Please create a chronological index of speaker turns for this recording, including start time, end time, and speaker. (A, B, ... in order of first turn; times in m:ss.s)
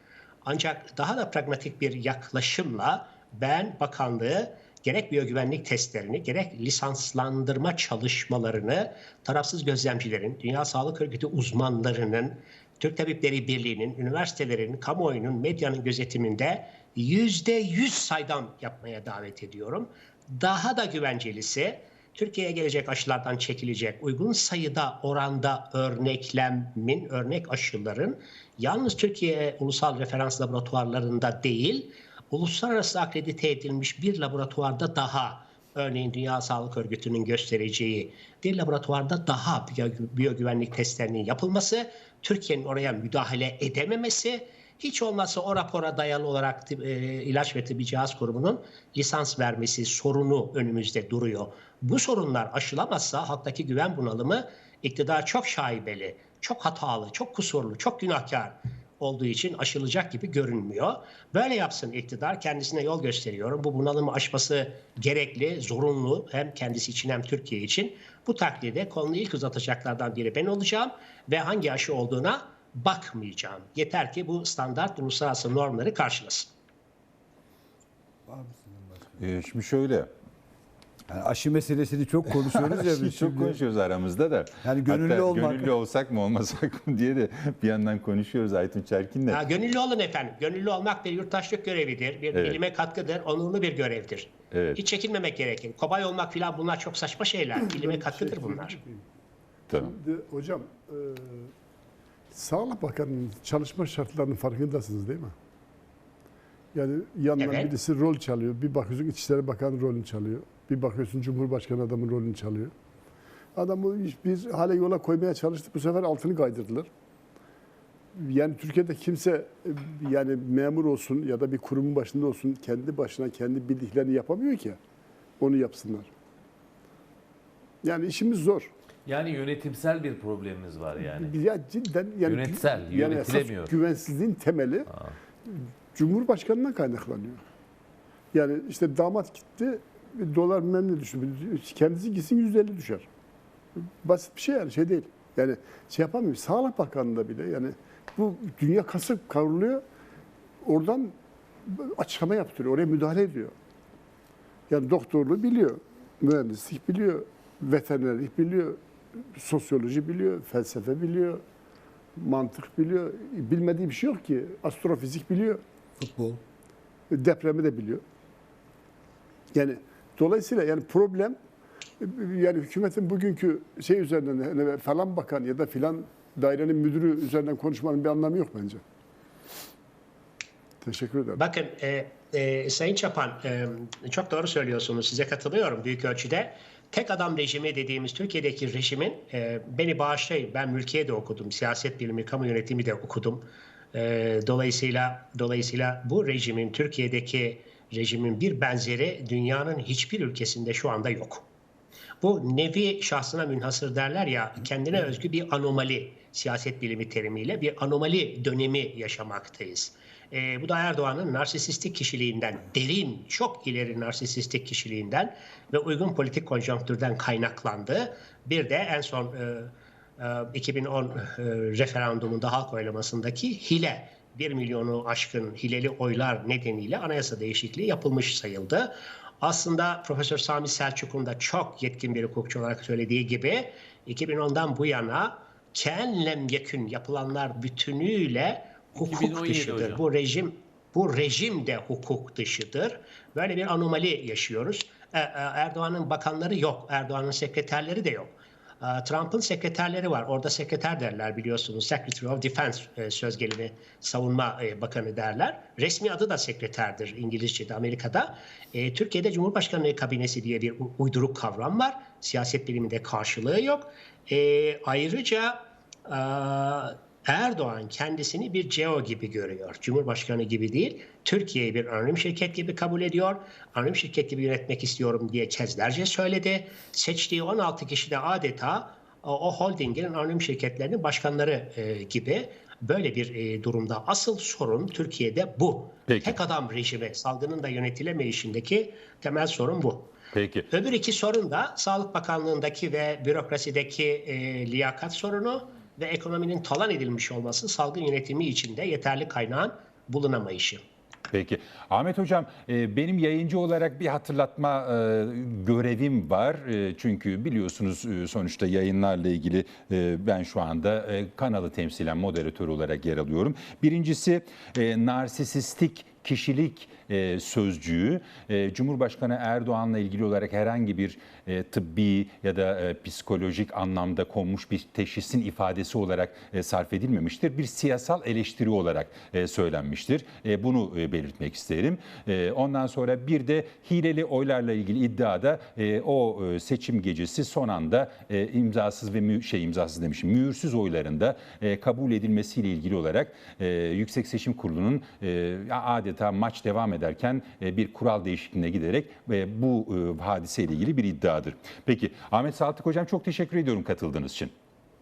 0:00.4-1:16.5 A
1:18.3-1:19.2 B
1:19.2-1:20.1 C
1:21.1-1:23.6 B
1:22.4-1:29.4 C
1:24.6-1:25.7 B
1:29.3-1:38.8 A
1:32.3-1:32.6 C
1:34.5-1:34.8 C
1:37.6-1:39.0 D
1:39.7-1:39.9 C
1:39.7-1:41.5 D
1:42.3-1:45.4 D
1:46.7-1:52.7 D
1:47.4-1:47.7 A
1:53.6-1:56.9 D
1:58.1-2:04.8 D
2:05.4-2:06.1 D
2:07.8-2:08.7 D
2:09.1-2:11.4 E
2:11.1-2:14.9 D
2:12.2-2:13.7 E
2:15.5-2:17.4 D
2:18.3-2:23.1 D
2:23.9-2:29.8 D
2:30.6-2:31.2 D
2:31.7-2:33.5 D
2:34.7-2:38.8 D
2:39.3-2:41.4 D
2:42.2-2:45.6 D
2:46.0-2:46.4 B
2:47.1-2:48.0 D
2:49.5-2:51.4 D
2:52.0-2:58.8 D
3:00.8-3:01.4 D
3:01.4-3:21.5 A
3:22.2-4:50.1 A
3:59.0-4:00.0 E
4:46.1-4:46.4 C
4:50.3-4:50.7 C
4:50.7-5:00.8 A
5:01.3-5:54.5 C